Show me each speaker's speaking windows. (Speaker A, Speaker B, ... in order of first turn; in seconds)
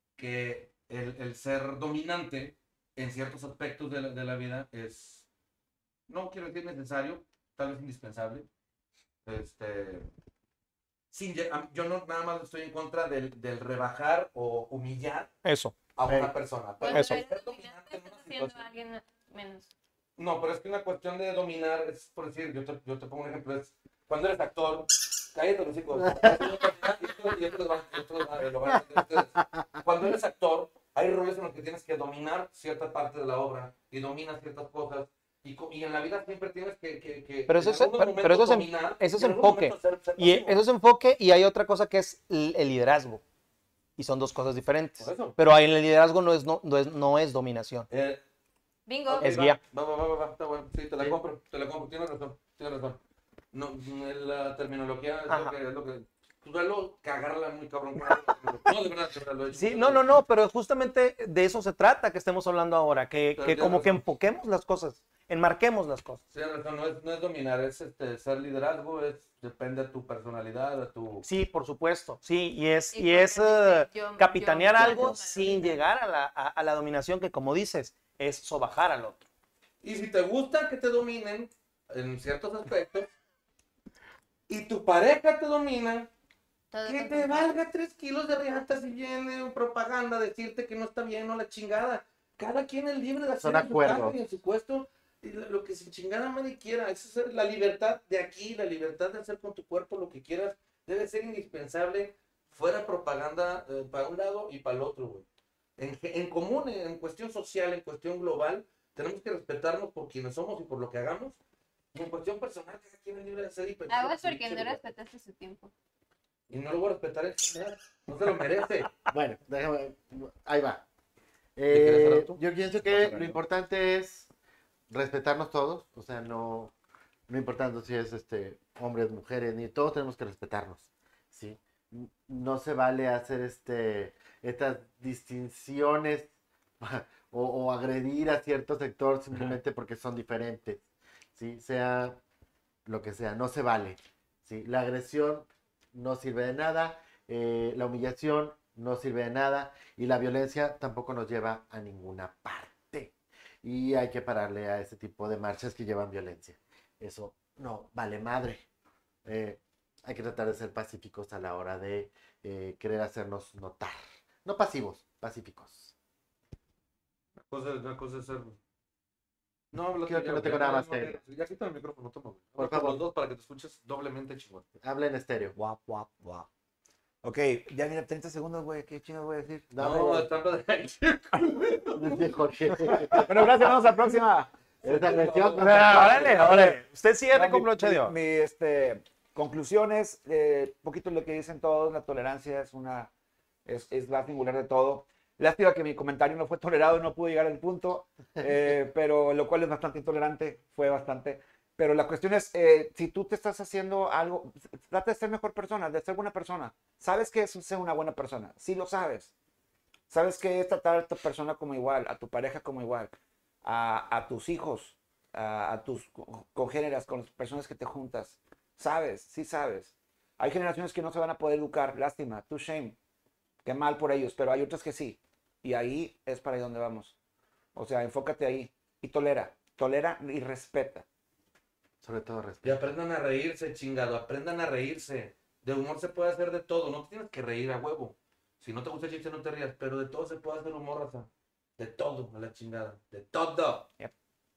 Speaker A: 0.2-5.2, 6.1-8.5, 9.3-10.1, 11.1-15.3, 15.9-18.6, 20.2-40.6, 45.0-45.4, 47.9-48.2, 49.1-53.0, 53.5-60.1, 63.4-64.0, 66.3-71.3, 79.8-83.1, 84.5-86.1, 86.8-111.4, 111.9-114.8, 116.5-118.9, 121.7-123.4, 167.4-168.6, 169.7-174.7, 179.8-182.4, 184.8-186.5, 232.6-243.9
Speaker B: 15.4-15.8, 16.9-17.2, 37.5-43.2, 44.0-47.9, 49.2-49.6, 55.3-55.6, 59.5-66.2, 71.2-79.3, 185.6-188.1
Speaker C: 16.8-19.7, 48.9-49.4, 72.9-75.8, 86.7-87.5, 113.9-115.7
Speaker D: 26.0-26.6, 93.4-94.2, 119.1-120.8, 121.6-124.3, 124.9-126.7, 127.3-140.8, 141.3-142.2, 142.9-158.7, 159.2-165.9, 170.1-171.2, 172.6-173.0, 174.8-175.6, 179.7-180.3, 181.9-183.5, 184.8-186.3, 232.0-232.9
Speaker E: 175.6-176.5, 177.2-179.7, 182.9-184.5, 185.9-193.1, 193.7-209.3, 210.1-223.0, 223.7-227.2, 227.8-231.1